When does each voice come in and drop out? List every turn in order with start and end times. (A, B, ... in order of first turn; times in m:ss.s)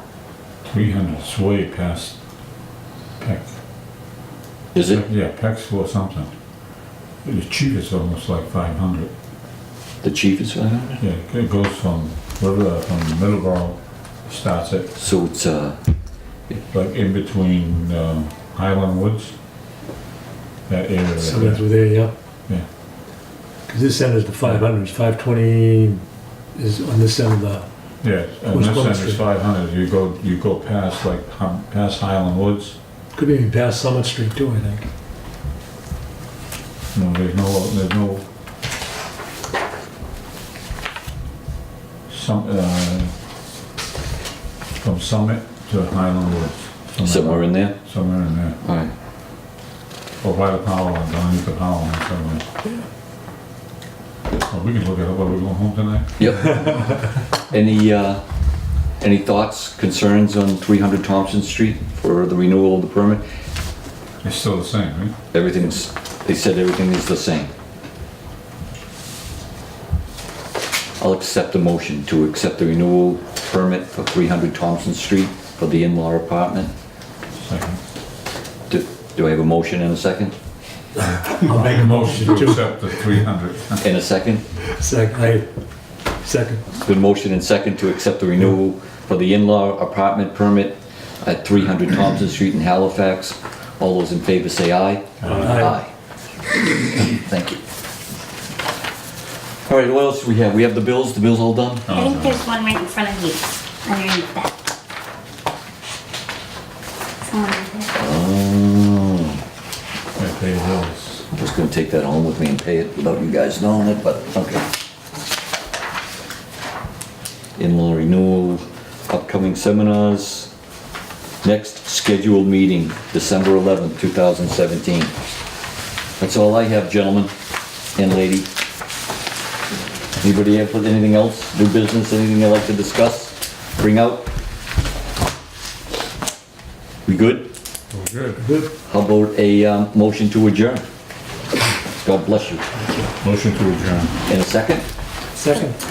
0:00.6-0:02.2 A
0:03.2-0:03.5 A
0:04.7-0:05.0 B
0:04.8-0:06.3 A
0:07.2-0:09.1 A
0:10.0-0:11.0 B
0:11.0-0:14.9 A
0:15.0-0:15.8 B
0:16.6-0:19.4 A
0:20.7-0:21.7 A
0:21.2-0:22.1 C
0:23.7-0:27.7 C
0:28.0-0:32.8 A
0:28.5-0:29.2 C
0:33.2-0:34.9 C
0:36.9-0:38.2 A
0:42.1-0:43.1 A
0:44.8-0:48.6 A
0:47.0-0:47.8 B
0:48.6-0:48.9 B
0:50.2-0:52.5 A
0:54.3-0:56.1 A
0:56.2-0:56.8 B
0:57.5-0:58.2 B
0:59.0-1:03.2 B
1:04.2-1:05.2 A
1:05.3-1:07.5 B
1:11.0-1:16.7 B
1:17.4-1:17.8 A
1:18.7-1:20.3 B
1:21.2-1:23.0 C
1:21.5-1:23.8 A
1:23.8-1:24.4 B
1:24.7-1:25.5 C
1:26.2-1:26.6 C
1:26.8-1:35.9 B
1:35.2-1:35.5 A
1:35.4-1:35.8 C
1:36.7-1:37.6 B
1:39.7-1:41.9 B
1:41.9-1:42.4 A
1:41.9-1:44.5 D
1:47.3-1:47.9 D
1:47.9-1:49.4 B
1:50.2-1:51.2 A
1:51.3-1:54.7 B
1:57.6-2:00.5 B
2:01.4-2:05.1 B
2:06.2-2:07.3 B
2:08.0-2:08.5 B
2:10.2-2:14.3 B
2:17.1-2:17.5 B
2:17.9-2:18.4 A
2:18.4-2:18.7 C
2:18.8-2:20.8 B
2:22.0-2:22.7 B
2:22.8-2:23.1 C
2:23.2-2:24.2 A
2:24.3-2:24.8 B
2:25.3-2:25.8 C